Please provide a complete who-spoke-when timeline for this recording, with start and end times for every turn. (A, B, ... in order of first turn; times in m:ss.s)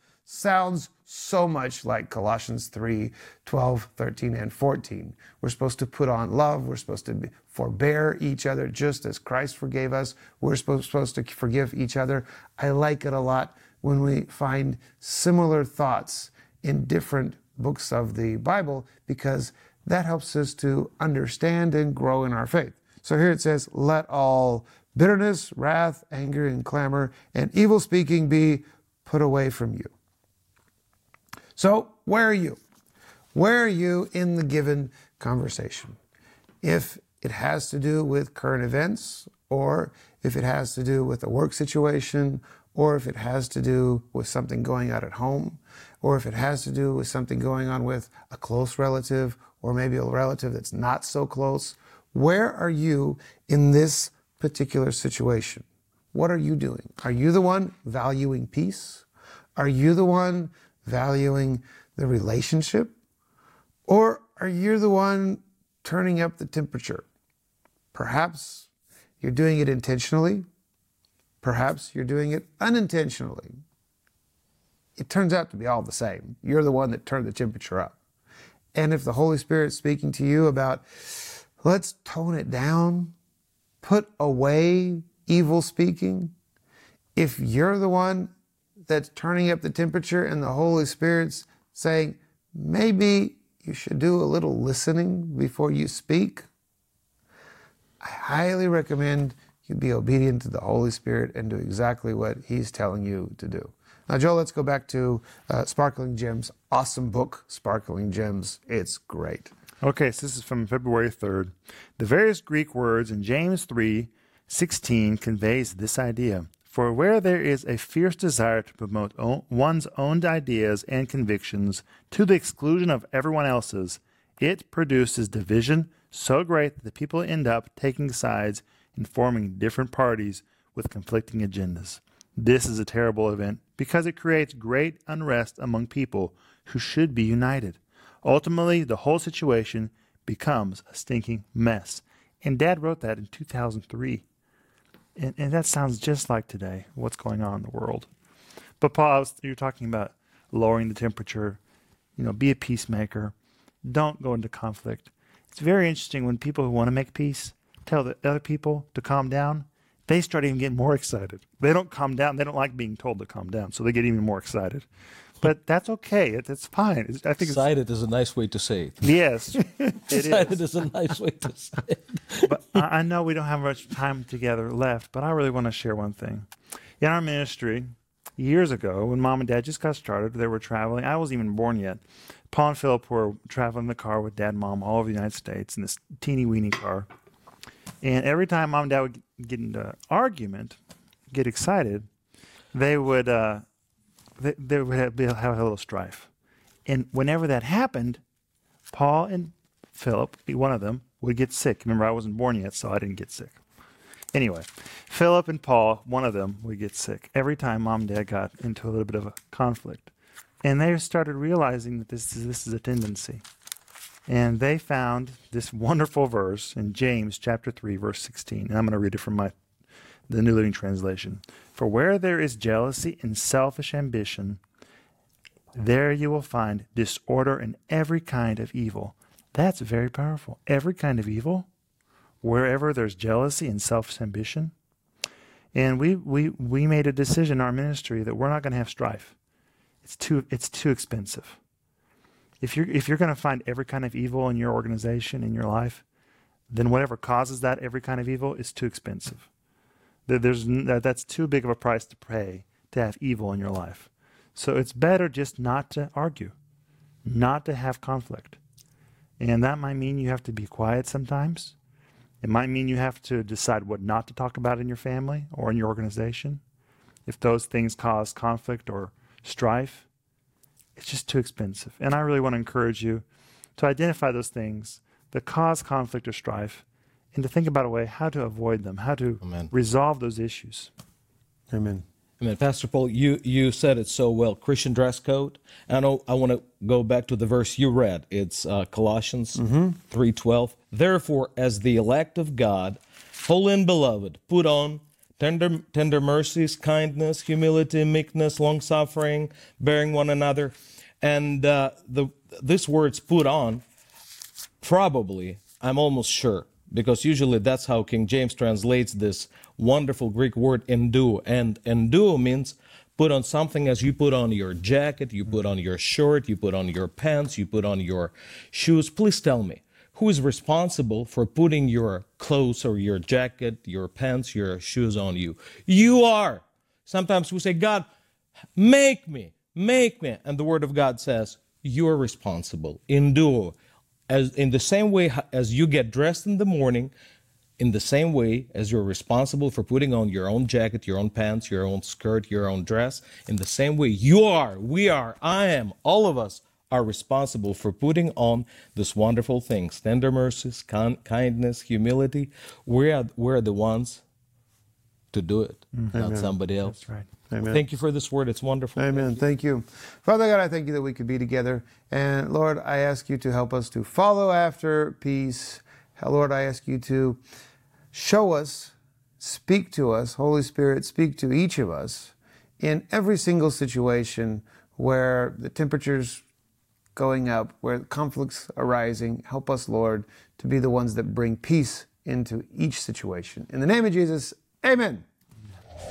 0:00.2-0:29.9 A
0:31.6-0:32.6 A
0:33.3-0:36.0 A
0:36.6-0:59.0 A
0:59.6-1:02.9 A
1:03.9-1:07.0 A
1:07.9-1:08.7 A
1:09.2-1:10.4 A
1:11.4-1:13.5 A
1:15.0-1:18.0 A
1:18.7-1:23.1 A
1:23.8-1:26.3 A
1:27.2-1:28.3 A
1:28.8-1:36.5 A
1:38.0-1:49.5 A
1:49.8-2:24.2 B
2:25.2-2:28.1 B
2:28.8-2:31.6 B
2:32.2-2:33.3 B
2:33.8-2:44.9 B
2:45.4-2:47.6 B
2:47.4-2:52.6 C
2:49.0-2:50.6 B
2:52.5-2:56.5 B
2:57.0-3:07.1 B
3:08.0-3:10.8 B
3:11.3-3:12.1 B
3:12.7-3:13.6 B
3:14.4-3:16.3 B
3:16.8-3:18.2 B
3:18.9-3:23.6 B
3:24.3-3:30.1 B
3:30.6-3:33.4 B
3:34.3-3:39.5 B
3:40.3-3:44.6 B
3:45.7-3:51.7 B
3:52.4-3:54.7 B
3:55.7-3:59.3 B
4:00.0-4:01.6 B
4:02.6-4:06.0 B
4:06.7-4:09.5 B
4:10.3-4:16.5 B
4:17.2-4:18.6 B
4:19.4-4:21.7 B
4:22.4-4:26.6 B
4:27.2-4:30.0 B
4:31.0-4:33.2 B
4:33.8-4:40.9 B
4:39.4-4:39.7 C
4:41.7-4:42.0 A
4:42.4-5:03.8 C
4:49.6-4:50.0 A
5:04.8-5:28.1 C
5:28.8-5:33.8 C
5:34.3-5:37.1 C
5:37.8-5:54.2 C
5:55.3-5:57.0 C
5:56.1-5:56.5 A
5:56.8-5:57.3 B
5:57.5-5:57.8 A
5:57.6-5:59.3 C
5:59.0-6:07.4 A
6:08.1-6:16.4 A
6:17.1-6:25.2 A